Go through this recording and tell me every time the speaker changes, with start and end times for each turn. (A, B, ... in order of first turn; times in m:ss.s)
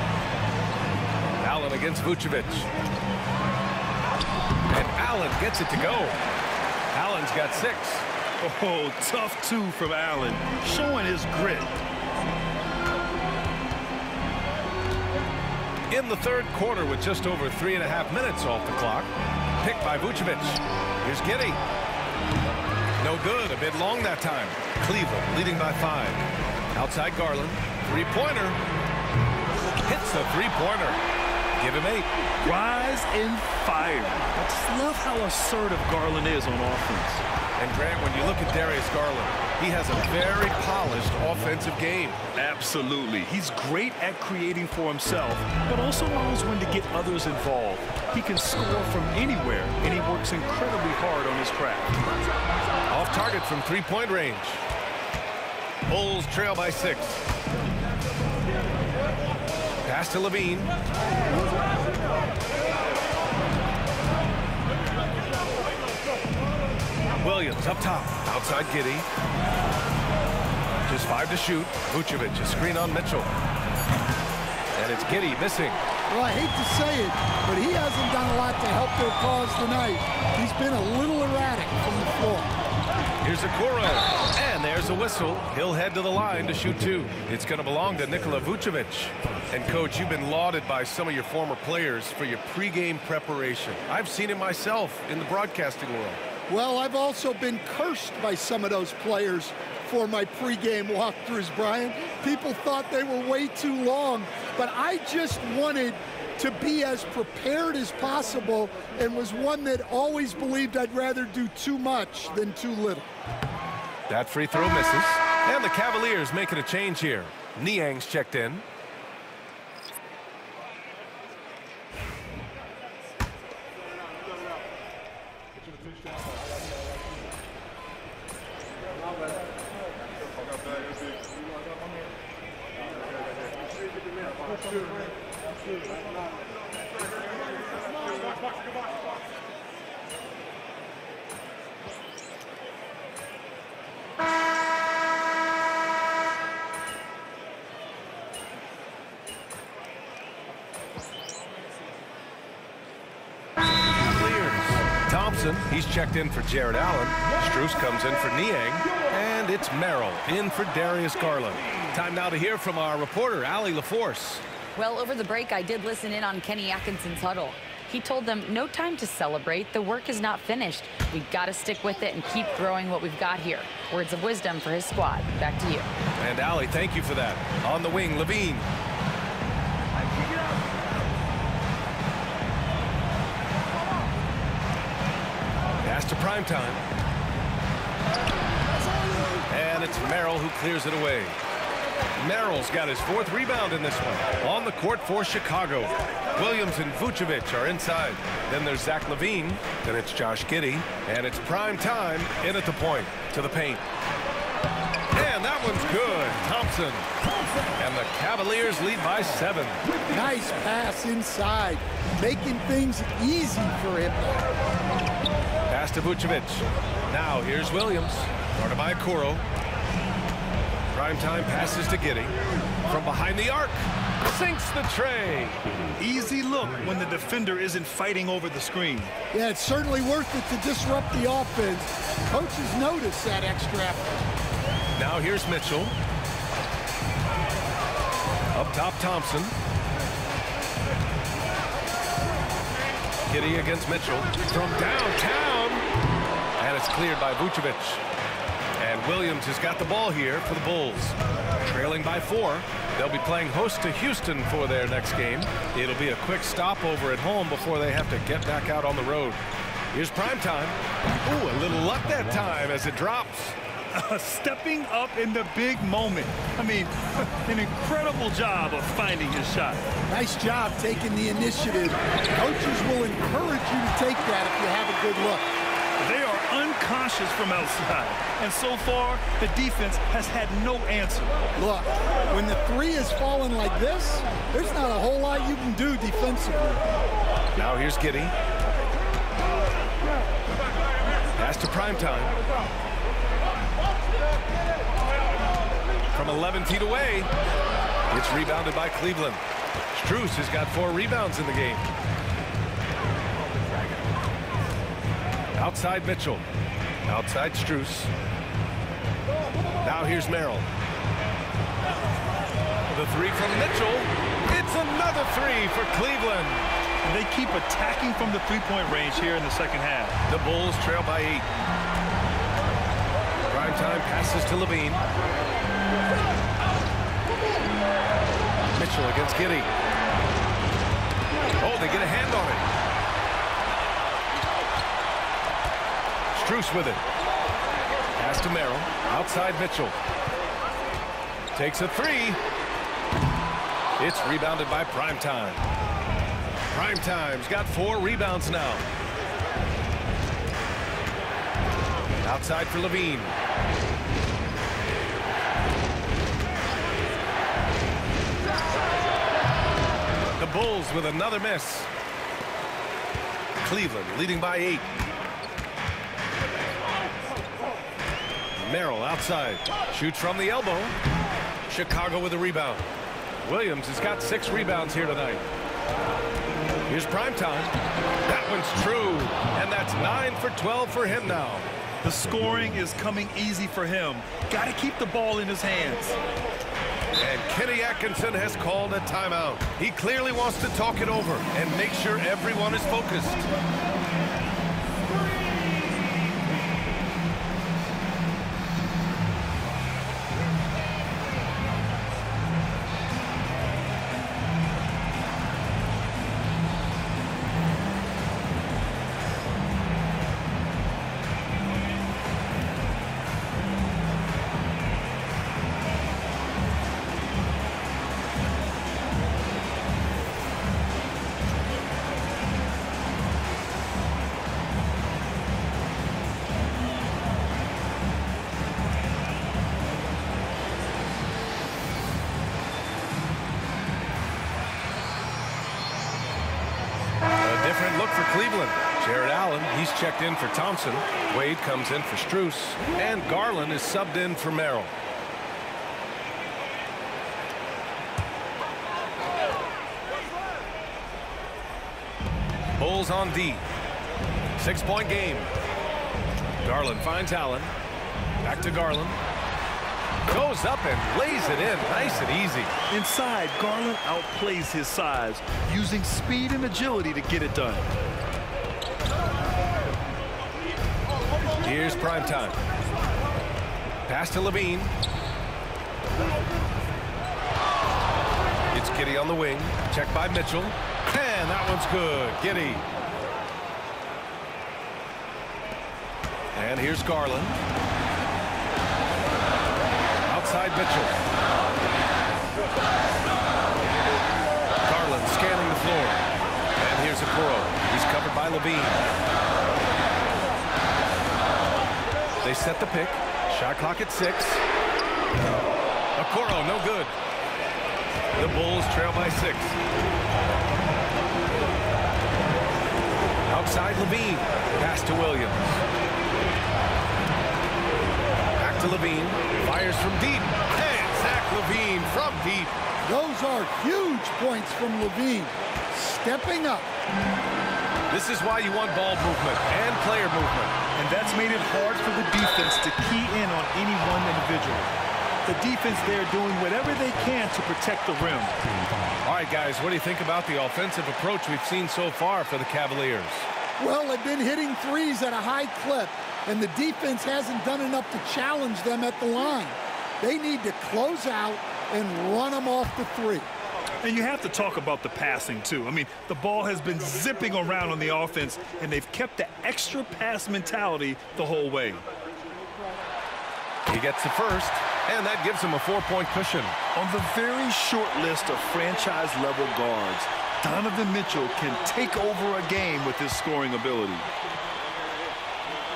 0:01.4-0:02.7 A
0:04.7-0:06.2 A
0:06.9-0:08.1 A
0:08.4-0:11.8 B
0:15.9-0:21.6 A
0:23.0-0:28.6 A
0:29.8-0:31.0 A
0:31.6-0:32.1 A
0:32.4-0:37.2 B
0:37.6-0:42.2 A
0:42.4-0:52.0 B
0:52.9-0:54.6 A
0:55.9-0:57.2 A
0:59.8-1:00.7 A
1:07.2-1:09.1 A
1:10.9-1:13.3 A
1:14.8-1:15.8 A
1:16.1-1:22.5 C
1:23.2-1:36.2 A
1:36.5-1:53.1 C
1:54.1-1:58.6 A
2:33.9-2:44.4 A
2:44.8-2:55.9 D
2:56.2-2:58.7 A
3:05.8-3:06.8 A
3:09.5-3:11.4 A
3:12.2-3:23.8 A
3:25.1-3:27.1 A
3:27.8-3:29.8 A
3:30.1-3:34.5 C
3:35.7-3:39.4 A
3:40.9-3:45.6 A
3:46.0-3:49.1 B
3:49.3-3:54.2 C
3:55.0-3:55.9 A
3:58.5-3:59.5 A
4:03.3-4:05.8 A
4:06.6-4:08.0 A
4:08.8-4:19.4 A
4:19.9-4:23.6 A
4:23.9-4:29.9 B
4:30.1-4:35.5 C
4:36.0-4:41.4 B
4:41.6-4:46.8 C
4:47.6-4:48.3 A
4:51.4-4:52.4 A
4:56.1-4:57.3 A
4:58.1-4:59.4 A
4:59.9-5:01.9 A
5:03.7-5:04.0 A
5:05.6-5:06.4 A
5:07.1-5:08.1 A
5:09.8-5:10.7 A
5:12.9-5:16.7 A
5:17.0-5:20.2 B
5:20.3-5:21.5 A
5:23.5-5:25.0 A
5:28.7-5:29.7 A
5:31.6-5:32.7 A
5:36.3-5:37.0 A
5:38.2-5:40.0 A
5:41.6-5:42.4 A
5:44.0-5:45.6 A
5:46.7-5:48.9 A
5:52.2-5:53.4 A
6:00.4-6:01.9 A
6:03.6-6:04.9 A
6:08.6-6:11.0 A
6:11.7-6:12.9 A
6:13.4-6:15.5 A
6:16.9-6:21.7 A
6:22.0-6:26.2 B
6:27.2-6:33.4 A
7:17.4-7:24.9 A
7:32.8-7:33.6 A
7:34.6-7:35.5 A
7:36.6-7:37.7 A
7:38.4-7:39.2 A
7:40.3-7:42.7 A
7:42.9-7:47.9 B
7:51.6-7:52.6 A
7:54.1-7:54.9 A
7:58.7-8:02.8 A
8:06.6-8:07.6 A
8:10.2-8:11.2 A
8:14.8-8:16.2 A
8:16.8-8:19.0 A
8:22.4-8:24.6 A
8:26.2-8:27.1 A
8:28.4-8:29.8 A
8:33.5-8:35.8 A
8:38.6-8:42.8 A
8:43.0-8:46.9 C
8:48.1-8:50.8 A
8:51.0-8:54.9 B
8:55.4-8:58.6 B
8:59.2-9:03.5 A
9:03.8-9:13.5 C
9:14.0-9:22.0 B
9:23.9-9:26.8 A
9:27.0-9:34.3 B